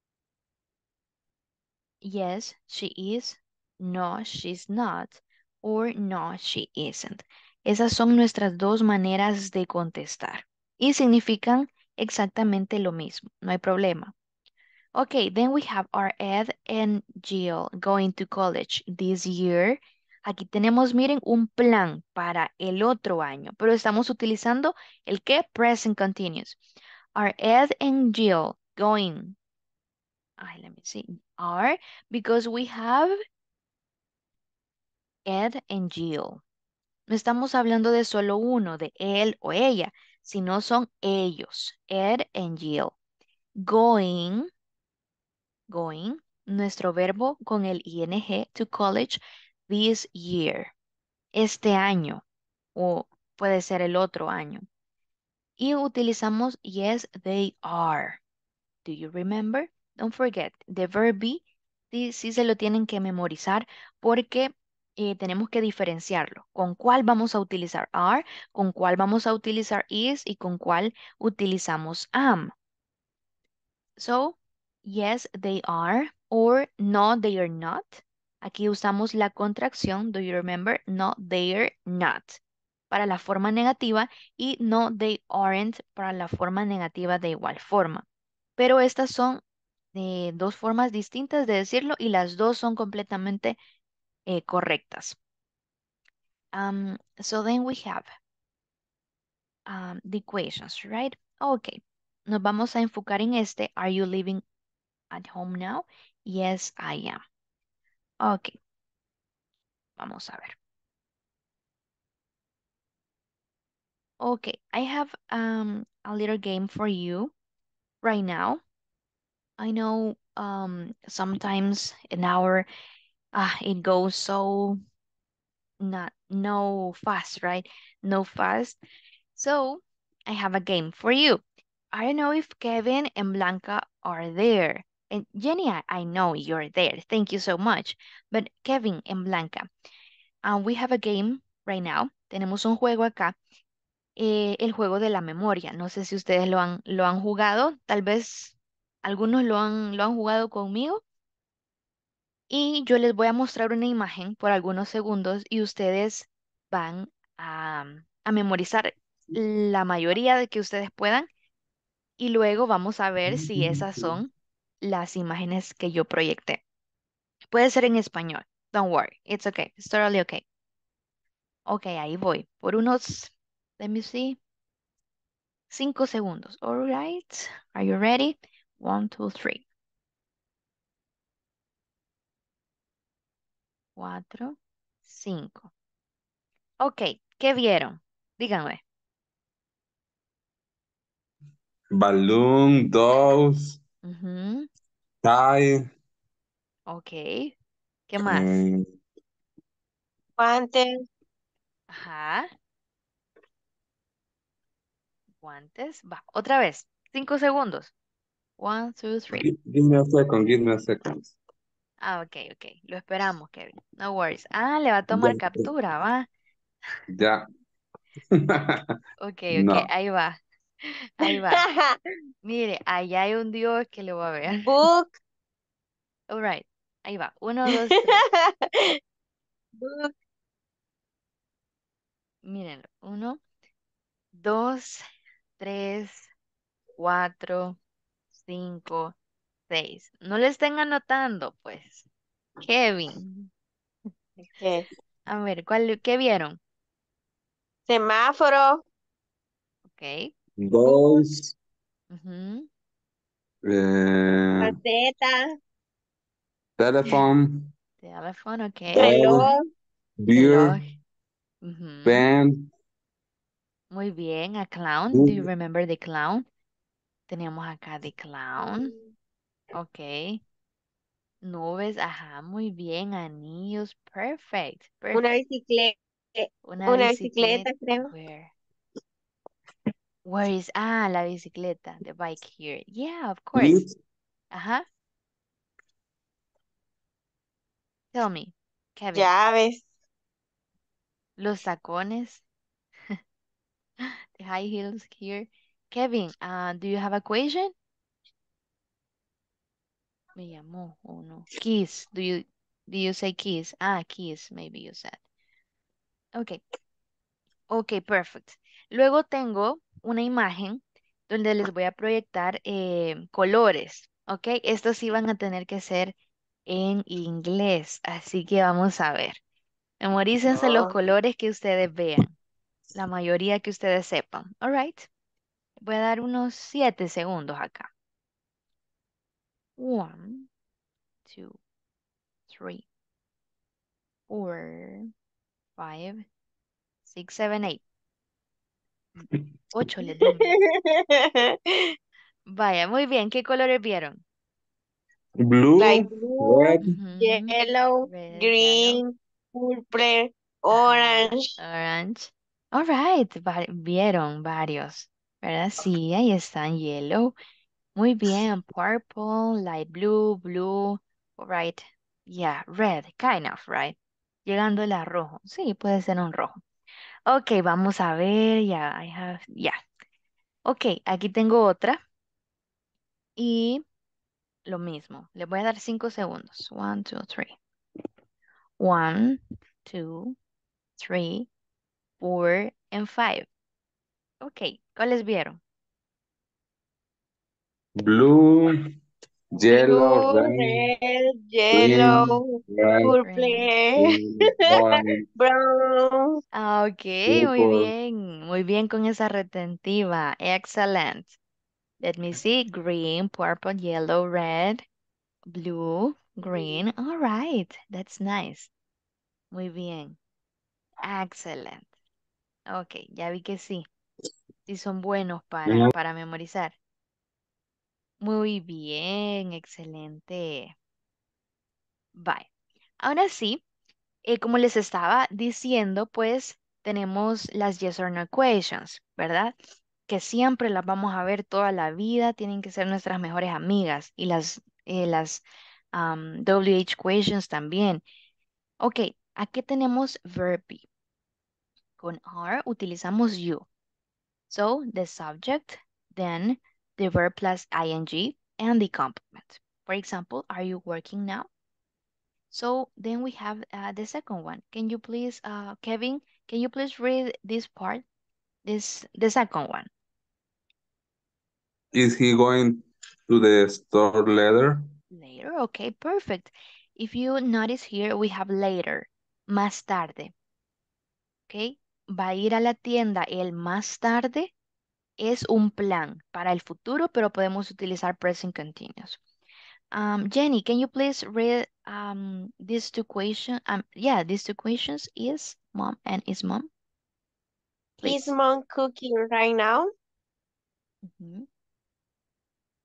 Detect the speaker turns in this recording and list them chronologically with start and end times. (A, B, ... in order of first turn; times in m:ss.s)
0:02.0-0:14.1 A
0:15.0-0:26.6 A
0:27.2-0:29.4 A
0:30.4-0:33.1 A
0:35.3-0:36.4 A
0:37.1-0:43.0 A
0:43.6-0:44.5 A
0:45.7-0:50.7 A
0:51.3-0:52.2 A
0:52.8-0:54.6 A
0:55.6-0:58.2 A
0:58.8-1:12.5 A
1:14.0-1:28.0 A
1:28.6-1:29.4 A
1:30.0-1:33.6 A
1:34.3-1:35.2 A
1:36.5-1:38.1 A
1:39.7-1:44.4 A
1:45.1-1:47.2 A
1:48.2-1:48.6 A
1:50.0-1:50.6 A
1:54.2-1:57.3 A
1:58.0-1:58.6 A
1:59.6-2:02.7 A
2:03.3-2:04.8 A
2:05.8-2:08.8 A
2:09.3-2:19.7 A
2:20.4-2:23.4 A
2:24.2-2:31.0 A
2:32.5-2:41.3 A
2:42.2-2:44.3 A
2:43.3-2:44.2 B
2:44.8-2:46.6 A
2:47.5-2:50.4 A
2:51.7-2:54.4 A
2:55.7-2:59.6 A
3:04.0-3:05.7 A
3:06.8-3:08.8 A
3:11.9-3:13.8 B
3:14.0-3:14.7 A
3:15.2-3:15.9 B
3:16.9-3:17.5 A
3:18.1-3:18.6 A
3:18.2-3:18.9 B
3:20.4-3:21.0 C
3:21.9-3:22.5 A
3:25.4-3:27.9 A
3:28.6-3:29.4 A
3:29.3-3:31.3 B
3:32.0-3:36.3 A
3:35.1-3:35.7 B
3:37.1-3:37.4 B
3:38.3-3:39.0 B
3:39.2-3:41.6 A
3:39.5-3:39.9 B
3:41.6-3:42.0 C
3:42.4-3:44.7 A
3:44.6-3:45.2 C
3:46.3-3:48.2 A
3:48.2-3:49.0 C
3:49.8-3:50.1 C
3:52.4-3:53.4 A
3:54.4-3:55.0 A
3:55.6-3:56.3 A
3:57.0-3:57.8 A
3:58.3-3:59.1 A
3:59.7-4:02.1 A
4:02.6-4:03.5 A
4:04.6-4:04.9 C
4:05.3-4:06.6 A
4:07.9-4:08.8 C
4:09.9-4:10.3 A
4:10.6-4:11.5 B
4:10.8-4:11.2 C
4:12.1-4:12.7 A
4:13.6-4:14.8 B
4:14.6-4:15.5 C
4:16.8-4:17.7 B
4:18.0-4:19.2 A
4:19.0-4:19.5 B
4:19.0-4:19.6 C
4:20.2-4:20.8 B
4:20.3-4:20.8 A
4:21.6-4:22.3 A
4:22.0-4:22.7 B
4:23.9-4:26.4 A
4:25.1-4:25.4 B
4:27.3-4:29.0 A
4:28.7-4:29.0 C
4:29.7-4:30.4 A
4:31.4-4:35.3 A
4:35.1-4:38.1 C
4:36.6-4:38.5 A
4:40.2-4:43.8 A
4:43.6-4:44.0 B
4:44.5-4:44.8 A
4:48.1-4:49.3 A
4:49.1-4:49.9 C
4:51.4-4:52.4 A
4:54.0-4:57.7 A
5:00.4-5:05.2 A
5:06.4-5:06.6 A
5:07.7-5:16.1 A
5:16.7-5:19.4 A
5:20.0-5:22.3 A
5:20.5-5:20.9 C
5:23.0-5:25.1 A
5:25.8-5:27.9 A
5:29.8-5:30.5 A
5:31.3-5:31.6 A
5:32.5-5:32.8 A
5:34.3-5:35.1 A
5:35.8-5:36.2 A
5:37.0-5:37.8 A
5:39.7-5:40.6 A
5:40.2-5:41.9 C
5:42.5-5:44.2 A
5:45.4-5:46.9 B
5:45.8-5:51.5 C
5:46.8-5:49.0 A
5:50.7-5:57.3 A
5:58.0-6:06.6 A
6:07.3-6:09.8 A
6:10.7-6:12.0 A
6:13.4-6:13.8 A
6:14.7-6:17.6 A
6:18.8-6:20.4 A
6:21.0-6:21.5 A
6:22.2-6:23.5 A
6:24.4-6:25.6 A
6:28.0-6:28.8 B
6:29.6-6:30.9 B
6:29.7-6:34.0 C
6:31.7-6:33.1 B
6:33.2-6:33.7 A
6:34.0-6:35.2 B
6:35.4-6:36.4 C
6:36.5-6:41.3 A
6:37.3-6:37.9 B
6:42.0-6:44.8 A
6:45.5-6:48.7 A
6:49.5-6:50.2 A
6:51.0-6:51.9 A
6:52.7-6:53.9 A
6:54.7-6:56.7 A
6:55.6-6:55.9 B
6:58.2-7:00.7 A
7:02.2-7:02.5 A
7:03.0-7:03.6 A
7:04.2-7:09.6 A
7:10.1-7:18.0 A
7:18.8-7:20.9 A
7:22.0-7:23.6 A
7:24.5-7:31.5 A
7:32.5-7:38.0 A
7:38.6-7:39.9 A
7:41.9-7:44.8 B
7:45.1-7:50.3 A
7:51.5-7:54.5 A
7:55.2-7:59.2 A
7:59.9-8:06.7 A
8:08.0-8:08.4 A
8:08.0-8:09.9 C
8:11.0-8:11.5 A